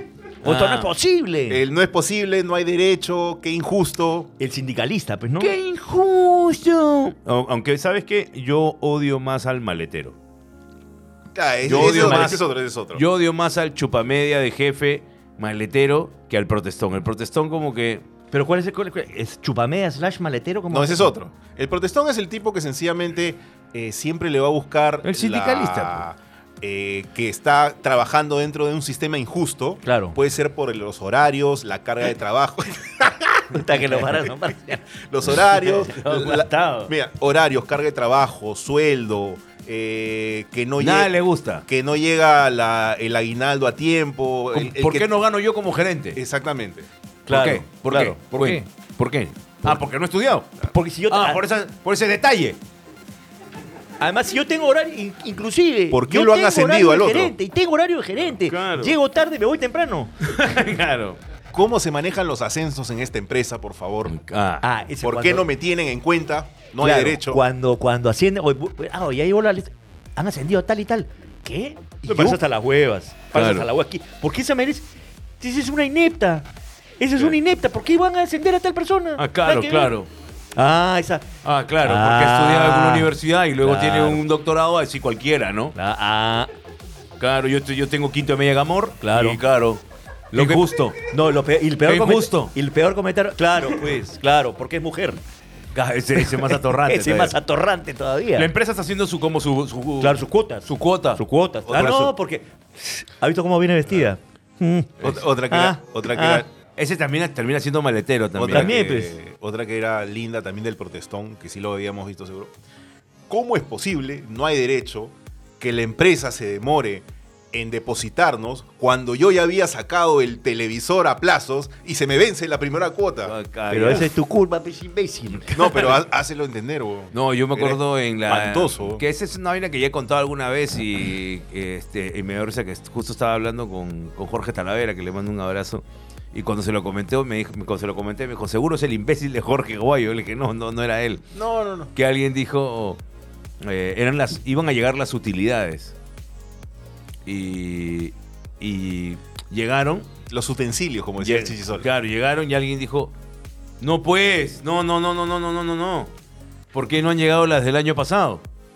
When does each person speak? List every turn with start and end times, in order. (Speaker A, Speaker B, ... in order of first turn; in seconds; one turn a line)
Speaker A: 0.4-0.9
Speaker B: 0.4-1.6
Speaker C: 1.5-4.3
Speaker B: 4.4-5.5
Speaker A: 5.4-10.1
Speaker C: 11.3-13.0
Speaker A: 11.6-18.0
Speaker B: 11.7-12.3
Speaker B: 18.3-21.1
Speaker C: 20.7-33.5
Speaker A: 25.0-26.0
Speaker B: 29.8-30.2
Speaker B: 33.5-34.8
Speaker C: 34.9-41.1
Speaker A: 35.5-36.9
Speaker A: 40.8-41.6
Speaker C: 41.6-45.1
Speaker A: 44.5-46.2
Speaker C: 46.1-46.9
Speaker B: 47.3-48.7
Speaker A: 47.3-52.6
Speaker B: 50.6-51.4
Speaker B: 54.0-60.1
Speaker C: 55.9-57.3
Speaker A: 58.4-58.9
Speaker A: 60.2-61.2
Speaker C: 61.5-64.2
Speaker A: 64.1-64.6
Speaker B: 64.6-65.5
Speaker C: 65.0-67.4
Speaker B: 66.8-74.8
Speaker A: 72.1-72.4
Speaker A: 73.3-73.7
Speaker B: 75.4-76.5
Speaker B: 77.0-79.9
Speaker A: 79.2-80.1
Speaker B: 80.5-81.3
Speaker A: 81.4-85.7
Speaker B: 81.8-84.2
Speaker B: 85.7-86.5
Speaker A: 87.2-89.8
Speaker B: 89.0-89.4
Speaker B: 90.3-95.2
Speaker A: 90.3-91.0
Speaker A: 91.8-92.5
Speaker A: 95.7-97.3
Speaker B: 96.2-98.5
Speaker A: 98.3-102.1
Speaker B: 100.0-106.4
Speaker C: 105.0-106.5
Speaker A: 106.8-109.1
Speaker C: 108.3-112.5
Speaker B: 108.5-109.2
Speaker C: 113.3-123.3
Speaker A: 123.2-124.1
Speaker B: 123.7-125.9
Speaker C: 125.5-129.0
Speaker A: 127.1-141.3
Speaker C: 141.3-141.9
Speaker A: 141.9-143.0
Speaker A: 143.6-145.9
Speaker A: 147.2-150.1
Speaker C: 150.3-151.9
Speaker A: 151.2-153.1
Speaker A: 153.8-156.1
Speaker A: 156.7-158.4